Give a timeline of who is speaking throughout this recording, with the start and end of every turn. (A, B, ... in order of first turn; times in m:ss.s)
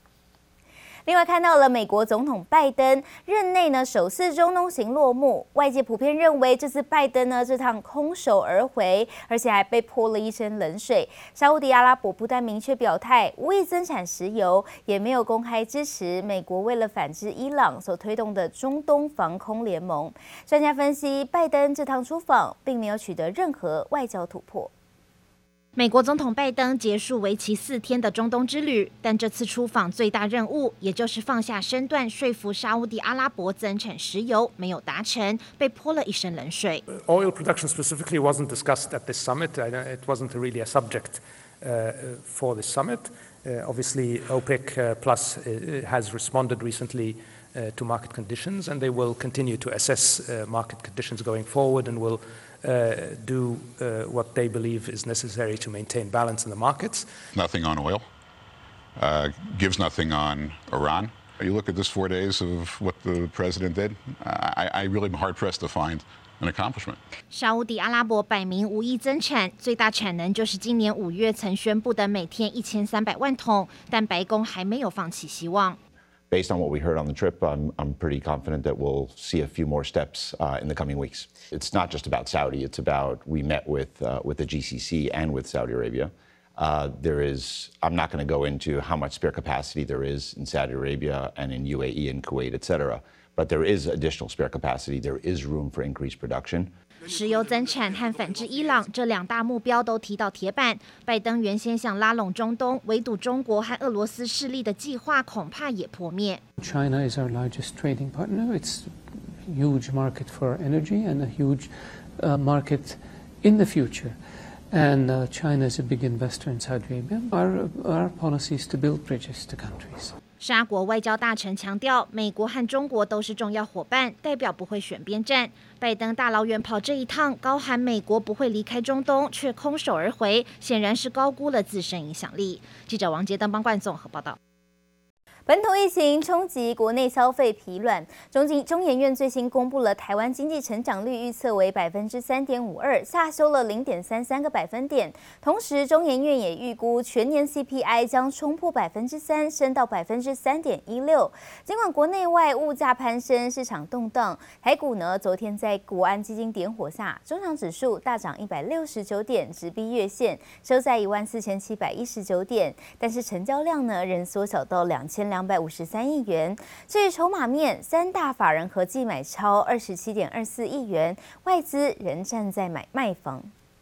0:01.1-0:24.7 A
0:25.8-0:36.8 B
0:36.9-0:57.1 C
0:57.3-0:58.1 D
0:59.0-1:07.0 D
1:07.3-1:15.8 B
1:16.3-1:36.7 E
1:37.1-1:46.4 B
1:46.6-2:00.1 F
2:00.4-2:14.4 B
2:15.5-2:53.5 A